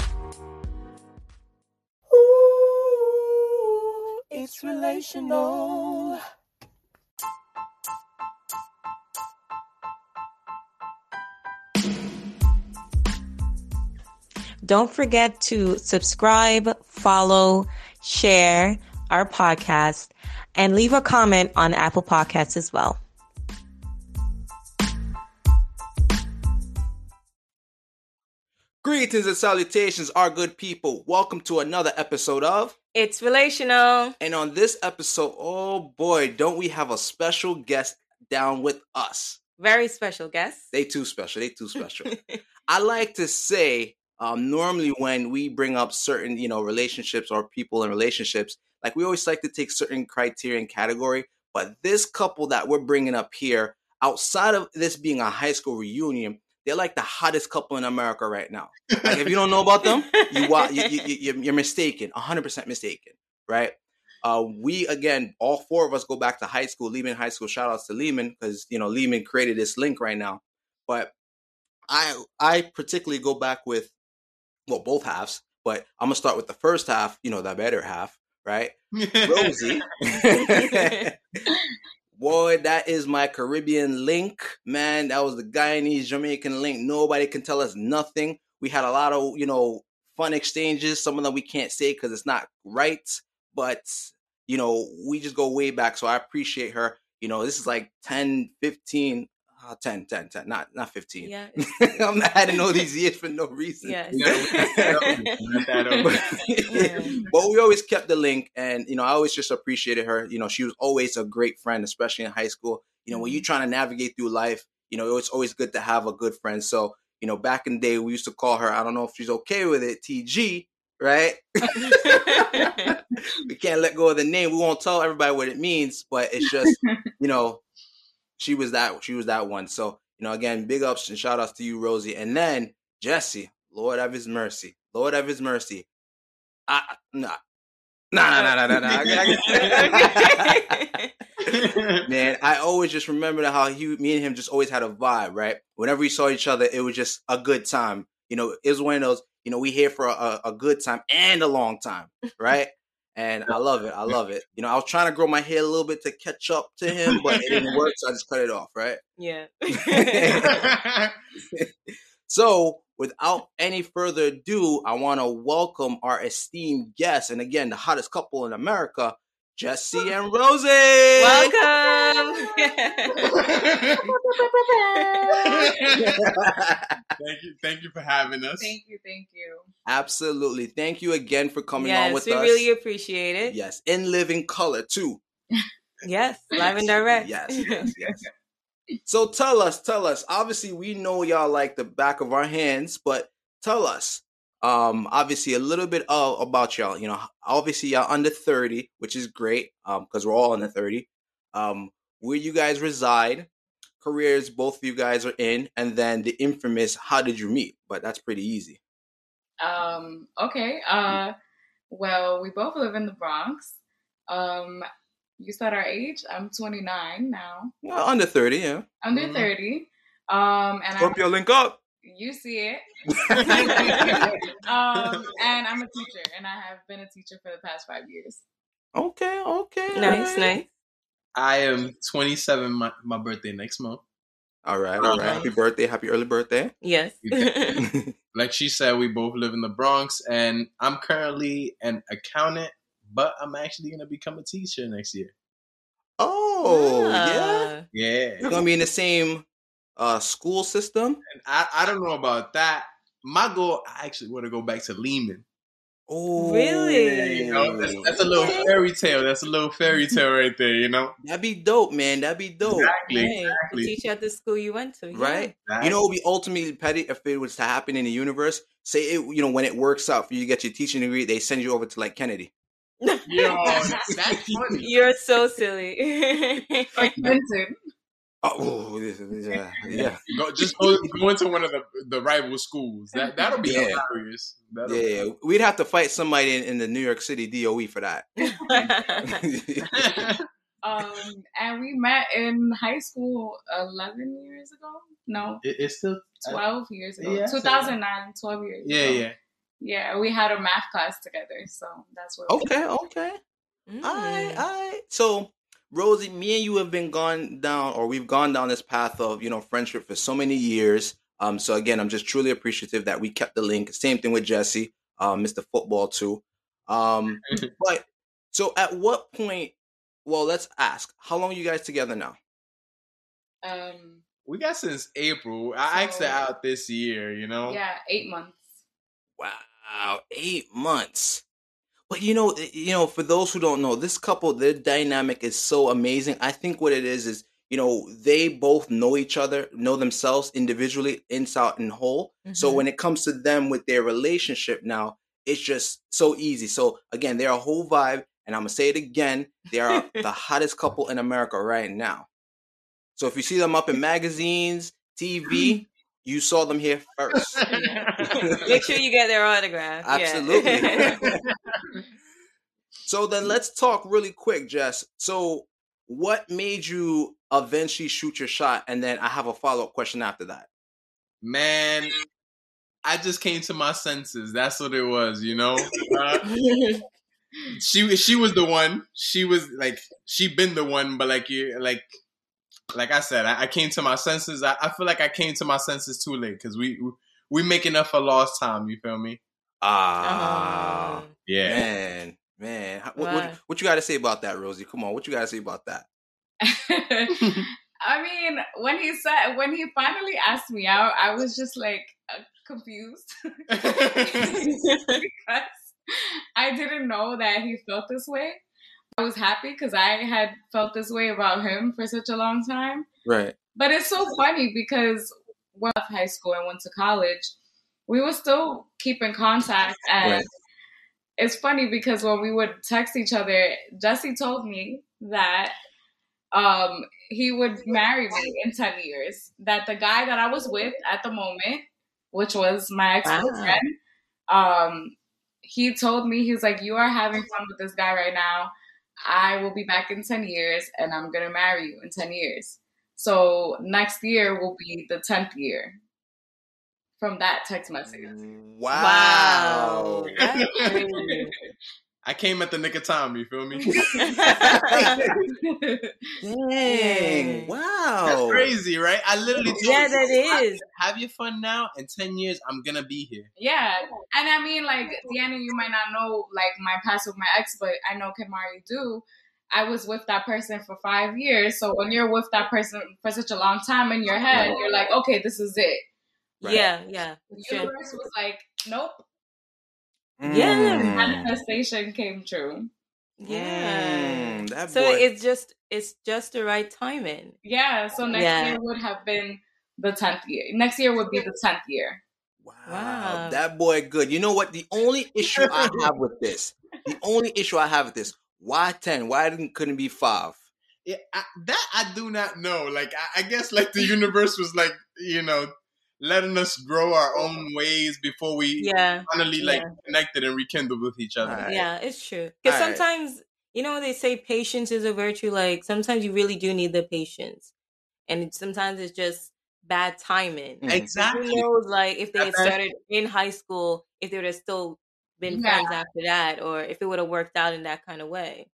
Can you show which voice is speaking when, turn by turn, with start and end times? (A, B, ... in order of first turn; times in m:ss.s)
0:02.1-0:06.2 A
0:14.6-0:23.0 B
0:28.8-0:32.7 A
0:32.9-0:34.1 B
0:34.2-0:39.4 A
0:39.6-0:40.6 B
0:40.7-0:42.1 A
0:42.1-0:42.4 B
0:42.7-1:11.1 A
0:58.9-0:59.2 C
1:00.1-1:00.7 B
1:11.9-1:13.9 A
1:14.7-1:21.2 A
1:19.0-1:19.7 C
1:22.1-1:45.2 A
1:41.2-1:41.8 B
1:43.8-1:45.2 B
1:44.1-1:46.2 C
1:45.8-1:46.4 D
1:46.0-2:07.6 A
1:46.7-1:47.1 B
1:53.1-1:53.4 B
2:01.6-2:02.9 D
2:01.8-2:02.8 B
2:08.4-2:15.9 A
2:16.7-2:17.4 A
2:18.1-2:20.7 A
2:18.8-2:19.9 C
2:19.1-2:21.1 B
2:21.4-2:22.0 C
2:22.0-2:39.0 A
2:37.1-2:37.7 C
2:39.2-2:40.4 B
2:39.9-2:40.7 A
2:40.4-2:41.1 C
2:42.3-2:51.5 A
2:51.2-2:53.2 B
2:53.3-2:54.0 C
2:54.0-2:57.0 A
2:55.4-2:56.2 C
2:57.2-2:58.8 C
2:58.6-2:59.7 D
2:59.8-3:02.7 A
3:01.8-3:03.5 B
3:03.5-3:05.2 A
3:06.0-3:07.8 B
3:06.6-3:08.2 A
3:07.7-3:08.3 D
3:09.0-3:23.5 A
3:24.0-3:28.8 A
3:29.6-3:31.3 D
3:31.9-3:33.7 D
3:34.3-3:34.8 D
3:35.4-3:37.7 D
3:37.8-3:38.8 A
3:39.0-3:41.2 D
3:39.1-3:39.5 C
3:41.0-3:41.8 A
3:42.0-3:42.8 D
3:43.2-3:44.3 A
3:43.3-3:48.4 D
3:43.4-3:44.4 C
3:48.9-3:50.3 A
3:49.9-3:50.6 B
3:50.0-3:50.5 D
3:51.4-3:54.0 C
3:54.6-3:56.7 A
3:55.0-3:55.5 C
3:55.0-3:55.5 B
3:56.8-3:57.8 B
3:57.2-3:57.5 C
3:57.8-3:58.1 A
3:58.3-4:05.3 C
4:06.2-4:07.7 A
4:06.6-4:07.8 B
4:07.9-4:08.5 C
4:08.4-4:09.4 A
4:10.0-4:11.2 A
4:11.3-4:15.4 C
4:16.1-4:18.5 A
4:16.4-4:17.5 B
4:17.4-4:21.1 C
4:18.3-4:18.6 B
4:21.2-4:22.9 A
4:22.6-4:23.9 C
4:23.1-4:25.5 B
4:25.1-4:32.5 A
4:25.6-4:26.0 C
4:33.0-4:33.8 B
4:33.2-4:34.9 C
4:33.6-4:34.0 D
4:34.1-4:34.6 A
4:34.8-4:36.9 B
4:37.0-4:37.7 D
4:38.4-4:40.2 A
4:39.9-4:45.2 C
4:43.6-4:44.0 A
4:44.8-4:48.3 A
4:48.4-4:49.4 B
4:49.2-4:49.9 A
4:49.9-4:50.4 C
4:50.8-4:55.6 D
4:55.6-4:56.6 C
4:56.4-4:59.2 D
4:57.2-4:57.9 C
4:58.8-4:59.4 C
4:59.8-5:02.7 D
5:02.5-5:03.4 A
5:03.9-5:04.6 B
5:04.0-5:22.4 A
5:23.6-5:24.2 D
5:24.4-5:27.8 C
5:25.9-5:26.4 D
5:27.6-5:28.6 D
5:29.4-5:31.4 A
5:32.1-5:52.3 A
5:42.4-5:42.8 B
5:49.9-5:50.2 B
5:53.2-5:57.6 A
5:57.3-5:58.7 C
5:58.4-5:58.9 A
5:58.6-6:01.1 B
6:00.0-6:01.3 A
6:00.9-6:01.8 C
6:03.0-6:10.7 A
6:11.4-6:12.2 C
6:13.0-6:16.4 C
6:16.4-6:17.0 B
6:17.7-6:22.0 C
6:22.9-6:29.4 C
6:29.8-6:36.1 A
6:30.2-6:31.3 B
6:31.4-6:31.8 C
6:33.2-6:33.6 B
6:36.6-6:48.6 D
6:37.4-6:37.7 C
6:43.7-6:44.6 C
6:44.7-6:45.2 B
6:49.1-6:53.0 D
6:53.2-6:53.5 A
6:53.7-6:57.5 D
6:58.1-7:00.4 D
7:01.4-7:05.8 D
7:06.5-7:13.9 D
7:13.2-7:13.8 B
7:14.5-7:18.7 D
7:19.2-7:26.0 D
7:27.2-7:28.3 D
7:28.1-7:30.4 A
7:28.9-7:31.5 B
7:30.4-7:30.9 C
7:30.7-7:31.5 D
7:32.2-7:34.4 C
7:33.8-7:34.3 D
7:34.2-7:35.0 B
7:34.5-7:35.4 A
7:35.0-7:35.3 C
7:35.5-7:36.3 D
7:36.4-7:38.7 A
7:36.8-7:37.7 B
7:38.2-7:43.5 C
7:39.8-7:40.8 B
7:43.6-7:56.0 D
7:54.5-7:54.8 A
7:56.6-7:57.9 B
7:57.5-7:59.2 D
8:00.4-8:01.5 A
8:00.4-8:01.1 B
8:00.6-8:02.9 D
8:03.4-8:07.6 B
8:03.4-8:05.2 A
8:07.6-8:12.2 D
8:08.3-8:08.8 B
8:12.6-8:20.6 A
8:12.9-8:13.6 B
8:15.6-8:16.0 C
8:21.0-8:31.7 C
8:28.8-8:29.9 B
8:31.4-8:31.9 A
8:31.6-8:37.7 B
8:32.6-8:33.0 A
8:38.3-8:48.7 B
8:40.8-8:41.1 A
8:40.9-8:41.7 C
8:42.4-8:42.8 C
8:45.5-8:45.9 D